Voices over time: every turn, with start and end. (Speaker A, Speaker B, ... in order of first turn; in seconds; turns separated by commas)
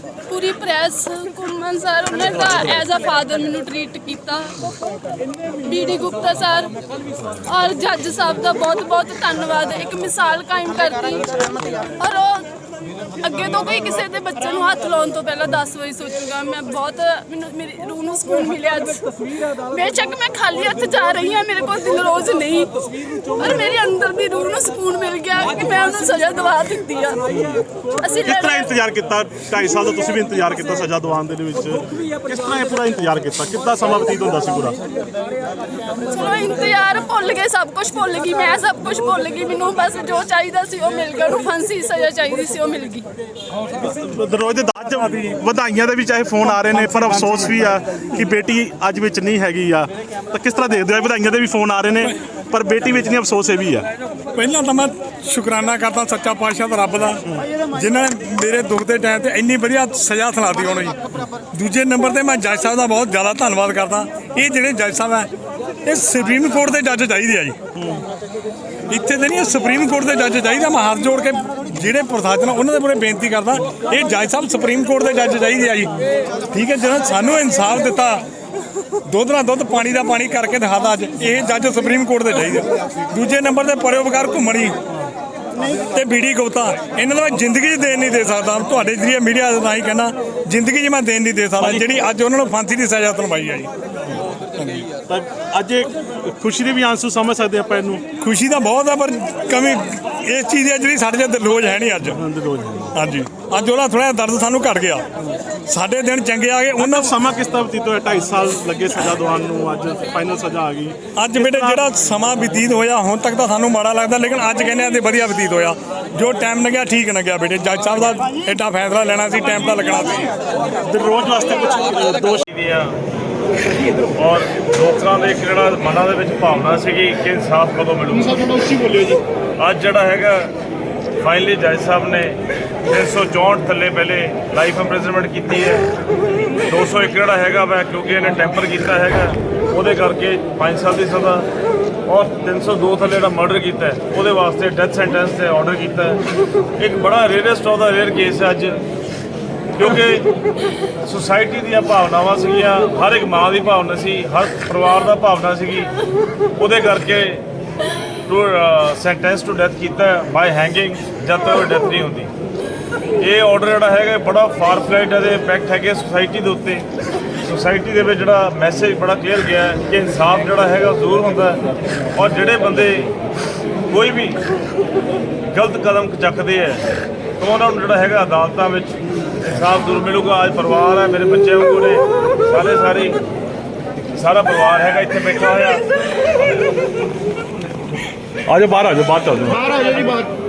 Speaker A: 0.3-4.6, Speaker A: 5.6-6.7, Speaker A: 7.4-12.5, Speaker A: 13.2-22.7, Speaker A: 23.3-27.2, Speaker A: 28.0-28.7, Speaker B: 28.2-34.8, Speaker A: 36.1-43.1, Speaker B: 43.9-53.9, Speaker C: 54.4-57.2, Speaker C: 57.7-61.0, Speaker C: 61.5-65.3, Speaker C: 65.8-67.6, Speaker C: 68.9-75.9, Speaker C: 76.5-78.2, Speaker C: 79.0-84.8, Speaker C: 85.9-93.7, Speaker C: 94.5-94.9, Speaker B: 95.1-98.0, Speaker C: 98.2-102.2, Speaker B: 102.1-102.9, Speaker C: 103.0-105.0, Speaker C: 105.7-107.1, Speaker B: 106.8-111.8, Speaker C: 111.2-120.3, Speaker B: 120.8-122.5, Speaker D: 122.5-123.0, Speaker D: 124.2-128.4, Speaker B: 128.4-129.2, Speaker D: 129.6-130.5, Speaker D: 131.2-135.9, Speaker D: 136.7-141.5, Speaker D: 142.1-146.2, Speaker D: 146.8-148.8, Speaker D: 149.8-150.3, Speaker D: 151.0-155.9, Speaker D: 156.6-157.4, Speaker D: 158.3-162.3, Speaker D: 163.2-166.9, Speaker D: 167.4-173.1, Speaker D: 173.9-174.4, Speaker D: 175.5-176.8, Speaker D: 177.4-183.2, Speaker D: 184.1-185.8, Speaker B: 188.5-190.1